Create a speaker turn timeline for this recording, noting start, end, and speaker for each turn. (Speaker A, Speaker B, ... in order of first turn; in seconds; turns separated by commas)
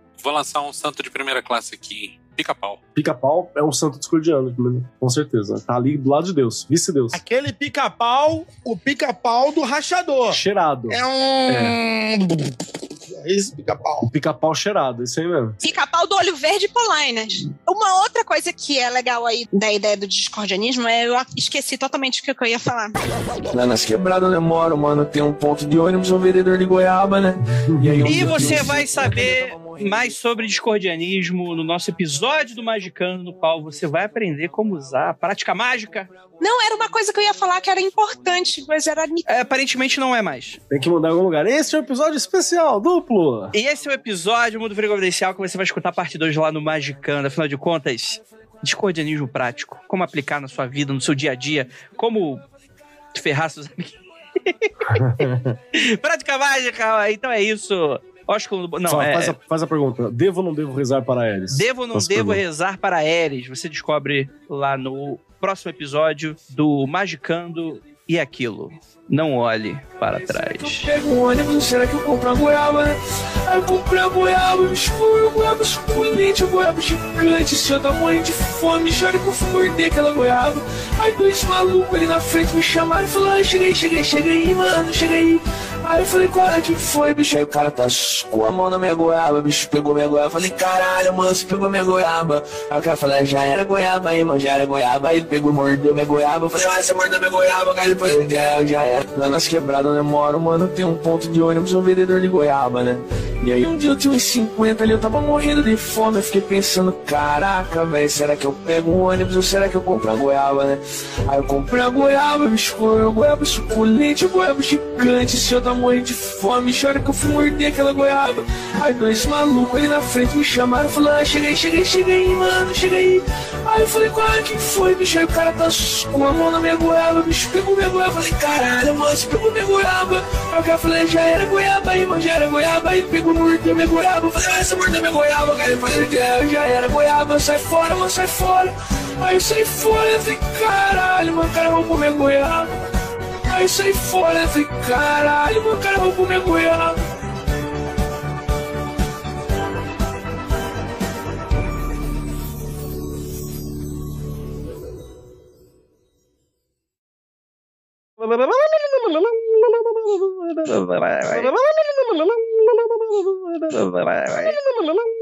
Speaker A: 0.2-2.8, Speaker B: 2.9-7.2, Speaker C: 7.1-10.4, Speaker B: 10.3-11.8, Speaker C: 10.9-12.6, Speaker C: 13.1-14.1, Speaker B: 14.0-15.6, Speaker D: 15.6-23.0, Speaker E: 23.5-30.2, Speaker B: 27.6-28.7, Speaker F: 28.1-36.1, Speaker D: 36.4-39.3, Speaker F: 39.3-40.6, Speaker B: 40.7-43.5, Speaker F: 43.5-52.4, Speaker F: 53.1-55.0, Speaker B: 54.9-55.6, Speaker F: 55.7-59.4, Speaker B: 58.9-62.4, Speaker F: 61.5-70.9, Speaker E: 70.2-142.8, Speaker E: 143.4-147.0, Speaker F: 160.8-161.2